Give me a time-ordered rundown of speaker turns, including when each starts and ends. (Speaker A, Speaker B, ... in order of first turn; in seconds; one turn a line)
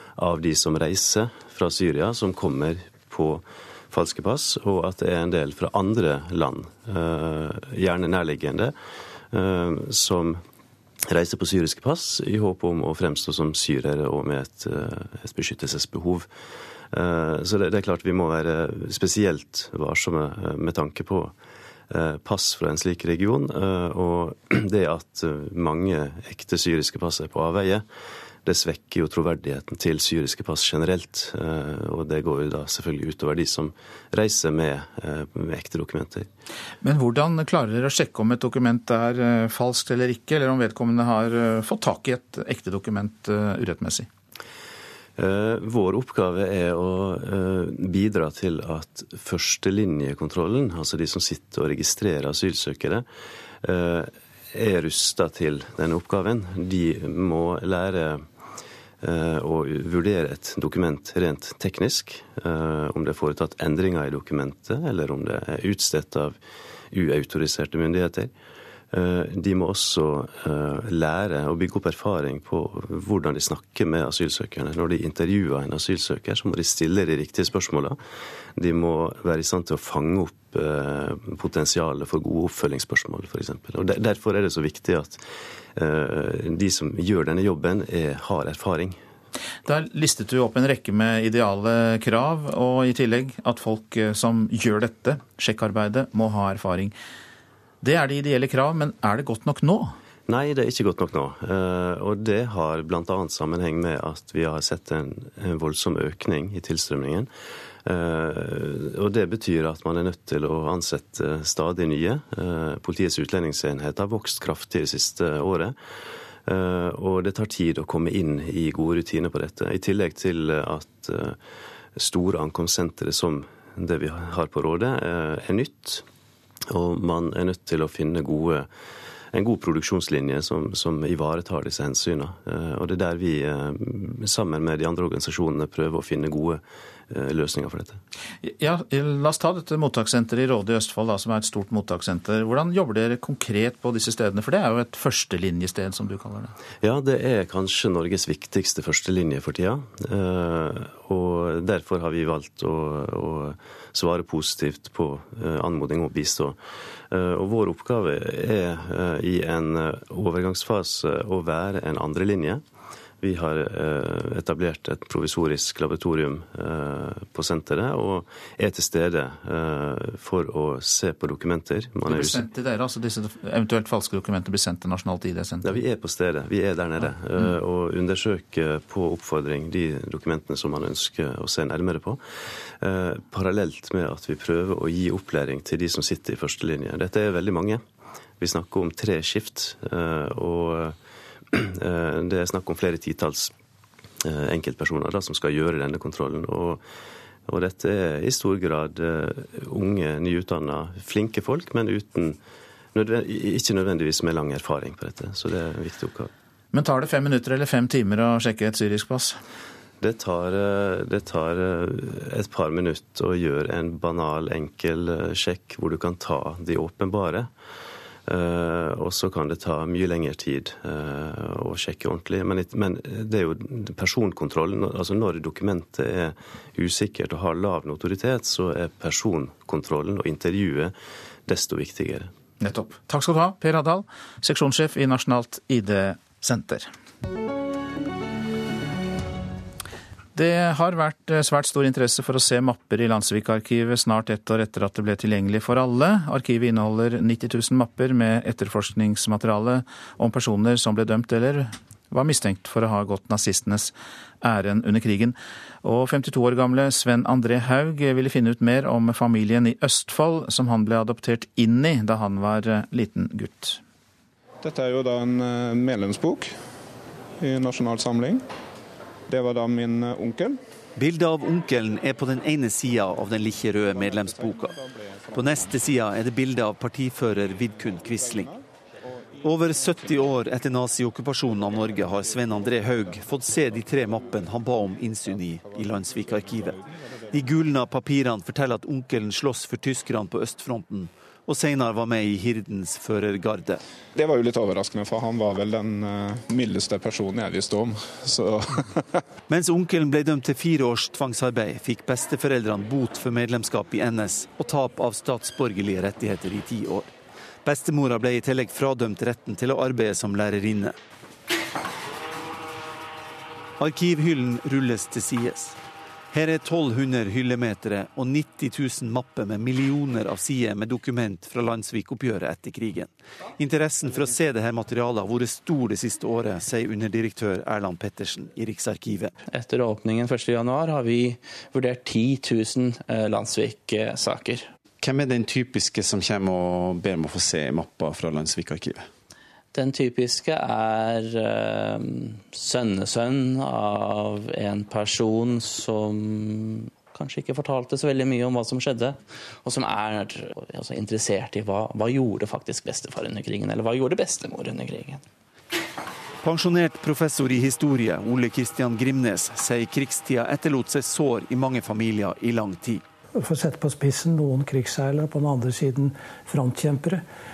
Speaker A: 0.2-8.7
Speaker A: 9.3-10.4
Speaker A: 11.1-16.3
Speaker A: 16.9-21.3
Speaker A: 21.9-27.8
Speaker A: 28.4-36.3
Speaker B: 36.8-44.1
Speaker A: 45.2-53.1
Speaker A: 53.6-58.3
Speaker A: 59.0-66.4
Speaker A: 66.9-68.3
Speaker A: 68.9-78.0
Speaker A: 78.6-85.2
Speaker A: 85.8-89.0
Speaker B: 89.6-96.9
Speaker B: 97.8-99.9
Speaker A: 100.3-107.3
Speaker A: 107.8-115.8
Speaker A: 116.5-121.4
Speaker A: 122.0-126.0
Speaker A: 126.7-128.7
Speaker A: 129.3-138.0
Speaker B: 138.4-146.5
Speaker A: 146.8-156.6
Speaker A: 157.1-162.6
Speaker A: 163.2-172.4
Speaker B: 172.1-175.8
Speaker A: 175.6-182.2
Speaker A: 182.8-187.8
Speaker A: 188.4-190.9
Speaker A: 191.5-193.5
Speaker A: 194.2-196.8
Speaker A: 197.5-202.4
Speaker A: 202.9-206.3
Speaker B: 206.7-209.4
Speaker A: 210.0-217.5
Speaker A: 218.3-230.9
Speaker A: 231.5-232.3
Speaker B: 232.6-236.9
Speaker B: 240.3-263.8
Speaker C: 264.6-266.6
Speaker C: 267.4-268.4
Speaker C: 269.3-270.6
Speaker D: 270.9-274.7
Speaker C: 274.0-275.7
Speaker D: 275.3-278.5
Speaker C: 278.2-278.6
Speaker D: 279.4-286.8
Speaker C: 285.6-286.7
Speaker D: 287.3-293.8
Speaker C: 294.1-299.2
Speaker D: 299.5-307.1
Speaker D: 307.6-310.9
Speaker D: 313.8-315.8
Speaker D: 316.3-329.3
Speaker E: 329.5-334.7
Speaker E: 339.7-355.2
Speaker D: 356.4-363.0
Speaker F: 363.4-367.2